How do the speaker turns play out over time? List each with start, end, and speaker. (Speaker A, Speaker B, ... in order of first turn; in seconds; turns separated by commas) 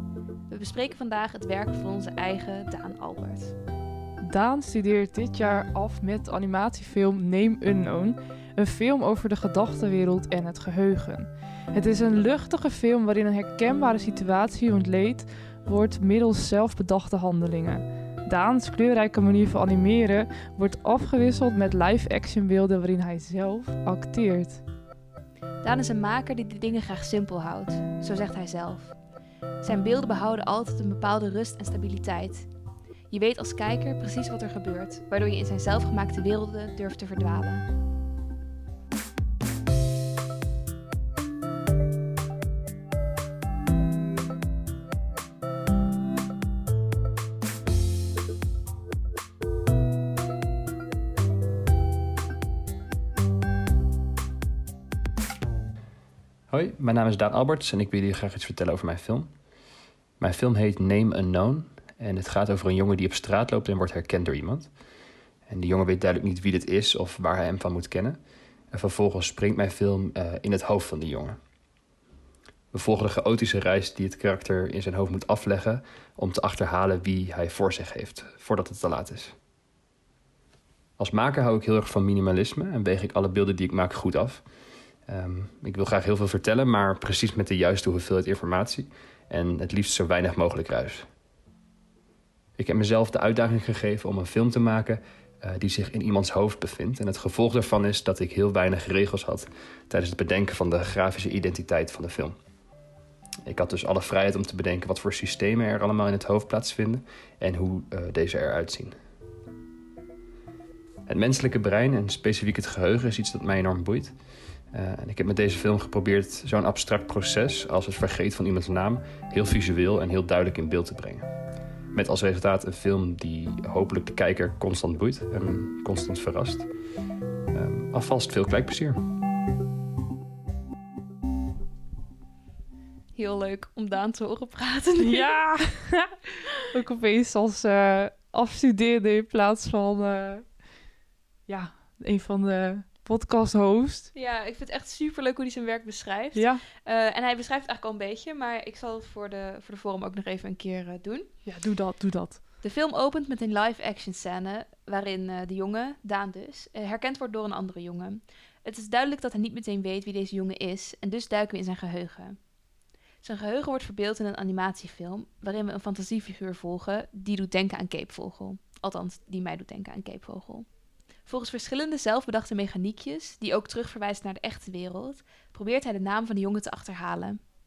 Speaker A: 0.5-3.5, Speaker B: 4.2-24.6, Speaker A: 25.6-28.9, Speaker A: 29.6-32.5, Speaker A: 33.1-37.6, Speaker C: 56.5-59.3, Speaker C: 60.2-64.7, Speaker C: 65.5-68.2, Speaker C: 68.7-71.3, Speaker C: 72.7-79.3, Speaker C: 81.0-84.4, Speaker C: 85.1-91.0, Speaker C: 92.6-102.3, Speaker C: 103.5-108.9, Speaker C: 111.1-114.1, Speaker C: 114.7-121.2, Speaker C: 121.9-126.7, Speaker C: 127.5-129.0, Speaker A: 133.1-135.3, Speaker B: 135.0-136.1, Speaker B: 136.7-140.4, Speaker B: 141.5-144.1, Speaker A: 144.1-151.3, Speaker B: 146.3-146.6, Speaker B: 151.4-152.4, Speaker A: 152.6-162.4, Speaker A: 163.2-170.7, Speaker A: 171.2-177.4